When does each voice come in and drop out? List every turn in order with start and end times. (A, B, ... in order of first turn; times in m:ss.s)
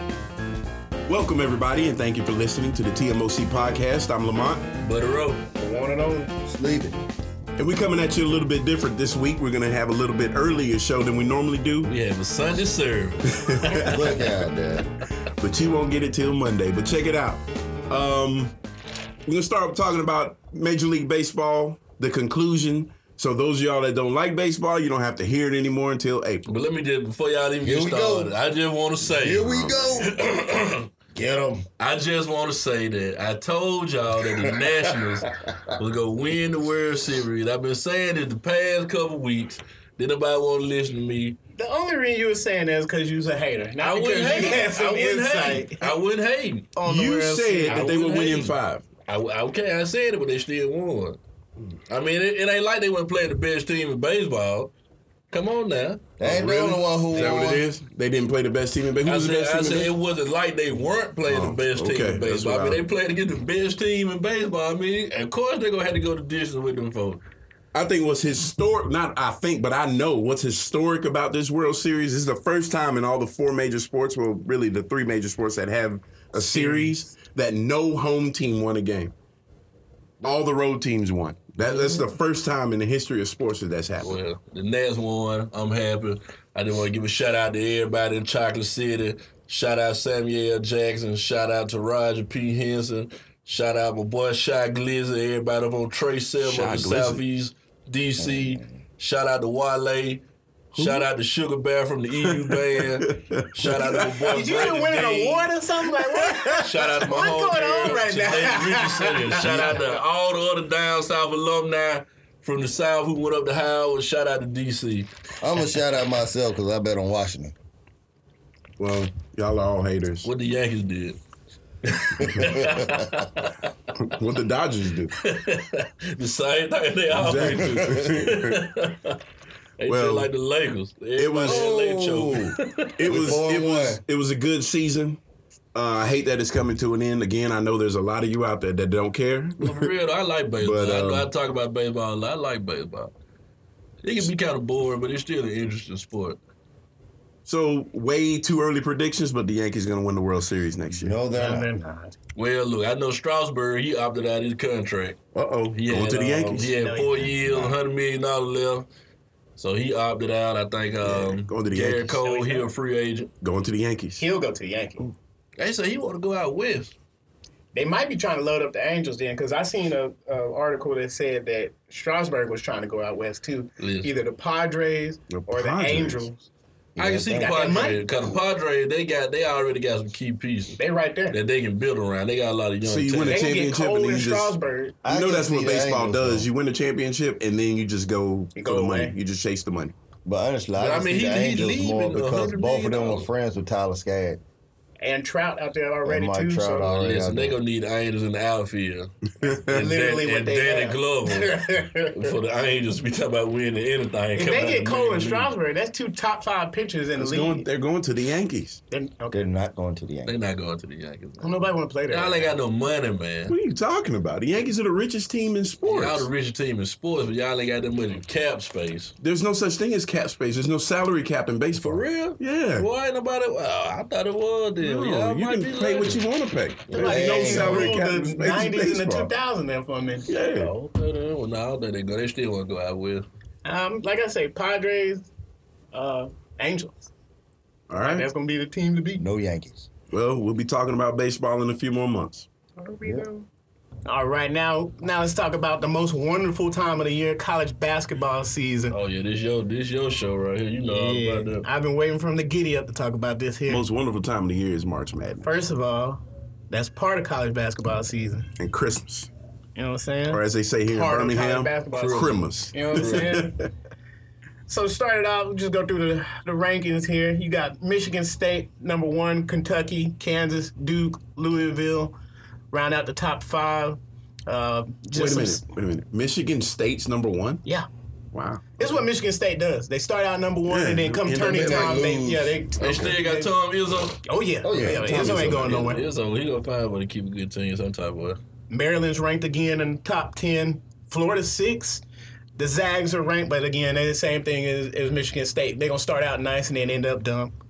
0:01.1-0:04.7 A
0:04.8-0:05.4 B
0:05.6-0:06.3 C
0:06.2-0:07.0 D
0:07.6-0:11.9 A
0:11.8-0:14.1 B
0:13.3-0:14.2 A
0:13.8-0:14.9 D
0:15.4-0:18.6 A
0:19.3-0:26.5 A
0:26.5-0:30.9 B
0:27.6-0:28.4 D
0:29.2-0:30.2 D
0:29.4-0:29.8 A
0:31.1-0:31.7 D
0:31.8-0:41.4 B
0:41.6-0:45.9 C
0:43.8-0:46.7 B
0:46.8-0:48.0 C
0:46.9-0:48.9 A
0:47.7-0:51.2 B
0:51.9-0:54.7 B
0:55.3-0:56.0 B
0:56.2-0:57.6 D
0:56.2-0:59.9 A
0:59.0-1:07.2 B
1:01.3-1:02.8 A
1:07.7-1:19.1 A
1:16.4-1:17.0 C
1:20.2-1:24.2 A
1:24.0-1:45.5 B
1:36.4-1:37.2 A
1:38.2-1:38.8 D
1:40.7-1:41.1 A
1:42.4-1:44.4 A
1:44.3-1:50.0 C
1:46.0-1:46.6 A
1:46.6-1:55.1 B
1:55.4-1:57.5 D
1:58.8-2:00.3 A
2:00.2-2:01.2 B
2:01.8-2:03.7 B
2:02.4-2:02.9 D
2:04.0-2:05.2 A
2:05.2-2:09.2 B
2:07.1-2:08.6 A
2:07.3-2:08.1 D
2:09.8-2:13.4 B
2:09.9-2:10.3 A
2:11.2-2:11.7 A
2:11.4-2:14.0 D
2:13.0-2:15.2 A
2:15.7-2:19.9 A
2:19.6-2:23.1 B
2:20.6-2:21.3 A
2:24.0-2:26.4 B
2:27.5-2:31.2 A
2:31.0-2:31.7 D
2:31.3-2:32.2 C
2:32.4-2:35.2 B
2:35.3-2:36.8 A
2:35.7-2:38.9 B
2:36.8-2:37.8 C
2:39.6-2:43.3 B
2:41.0-2:42.2 A
2:42.0-2:42.7 C
2:43.4-2:44.3 A
2:44.2-2:45.1 C
2:45.6-2:46.9 B
2:47.7-2:56.4 C
2:53.8-2:54.1 B
2:55.3-2:56.3 A
2:57.0-2:58.0 D
2:57.0-3:00.8 B
2:57.3-2:58.1 C
3:00.8-3:01.4 C
3:01.3-3:03.5 B
3:02.8-3:09.9 A
3:03.2-3:05.0 C
3:05.0-3:06.5 D
3:08.6-3:09.2 C
3:10.2-3:14.4 D
3:10.8-3:13.3 B
3:15.0-3:17.0 C
3:16.0-3:17.6 D
3:16.9-3:21.6 B
3:19.4-3:22.4 C
3:22.1-3:25.5 B
3:24.4-3:27.7 C
3:27.2-3:28.8 A
3:28.9-3:29.4 C
3:29.3-3:30.4 D
3:30.3-3:33.6 B
3:31.4-3:32.6 C
3:33.5-3:36.3 A
3:35.8-3:39.2 B
3:39.2-3:42.9 A
3:41.8-3:46.3 B
3:44.8-3:49.3 A
3:46.9-3:50.3 C
3:47.0-3:48.0 D
3:50.3-3:50.7 A
3:50.5-3:53.3 B
3:53.6-3:55.2 C
3:55.9-3:57.1 C
3:57.9-3:58.3 A
3:58.0-3:59.2 C
3:59.2-3:59.9 D
4:00.1-4:02.5 A
4:02.8-4:03.5 C
4:04.0-4:09.0 C
4:08.9-4:11.7 B
4:10.9-4:13.8 C
4:13.7-4:15.5 A
4:15.4-4:18.5 C
4:18.6-4:19.3 A
4:19.8-4:23.7 C
4:20.3-4:23.7 A
4:21.9-4:23.4 B
4:24.7-4:32.2 C
4:32.7-4:35.6 C
4:35.1-4:37.6 A
4:38.3-4:38.7 A
4:38.8-4:43.5 C
4:40.7-4:43.2 A
4:41.7-4:42.4 D
4:42.8-4:44.2 B
4:44.2-4:46.0 C
4:44.6-4:45.6 D
4:44.7-4:46.0 A
4:45.4-4:48.4 B
4:48.7-4:52.0 C
4:52.6-4:57.5 C